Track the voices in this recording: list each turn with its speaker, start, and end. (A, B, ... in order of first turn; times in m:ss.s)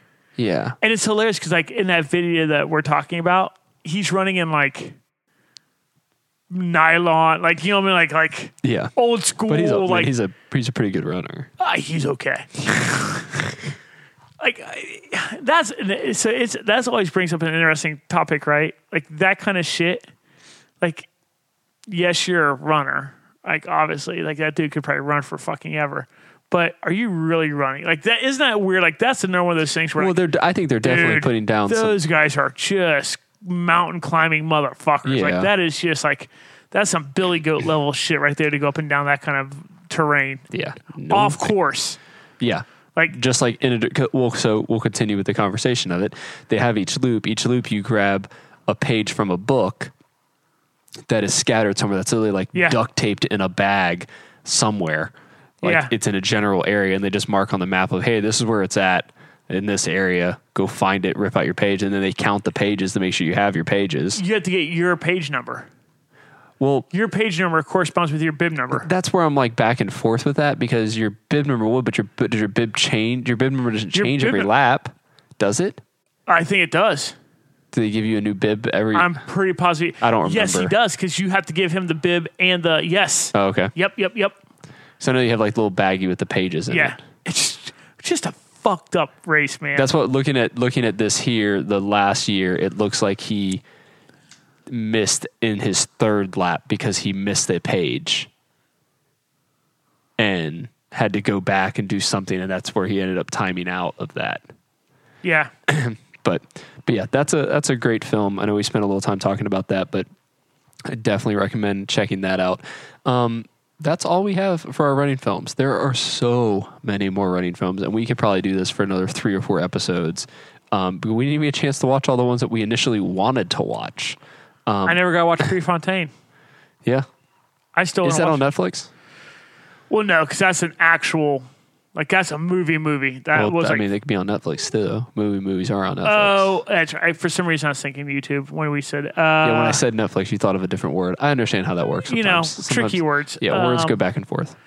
0:00.4-0:00.8 A
0:00.8-0:05.0 B
0:06.5-0:10.1 B
0:08.6-0:08.9 A
0:09.4-0:11.5 A
0:11.6-0:12.5 B
0:14.4-0:20.0 B
0:20.8-0:21.1 B
0:21.9-0:30.2 B
0:30.0-0:32.0 A
0:30.8-0:40.4 B
0:35.0-0:35.5 A
0:40.5-0:41.5 A
0:41.1-0:42.0 B
0:42.4-0:49.9 A
0:51.1-1:04.2 A
0:55.6-0:55.9 B
1:04.1-1:05.7 B
1:06.6-1:06.9 A
1:06.9-1:08.9 B
1:08.7-1:15.8 A
1:13.9-1:14.5 B
1:16.3-1:17.1 B
1:17.7-1:19.2 A
1:18.9-1:24.4 B
1:20.0-1:20.7 A
1:23.3-1:23.7 A
1:25.0-1:27.0 A
1:26.7-1:29.9 B
1:29.7-1:33.6 A
1:34.7-1:38.3 A
1:40.2-1:44.4 A
1:45.2-1:45.5 B
1:45.7-1:50.0 A
1:50.8-2:05.0 A
2:04.8-2:06.1 B
2:07.8-2:08.4 B
2:08.0-2:08.9 A
2:09.9-2:13.8 B
2:13.3-2:16.6 A
2:16.0-2:19.8 B
2:19.4-2:24.6 A
2:22.0-2:24.0 B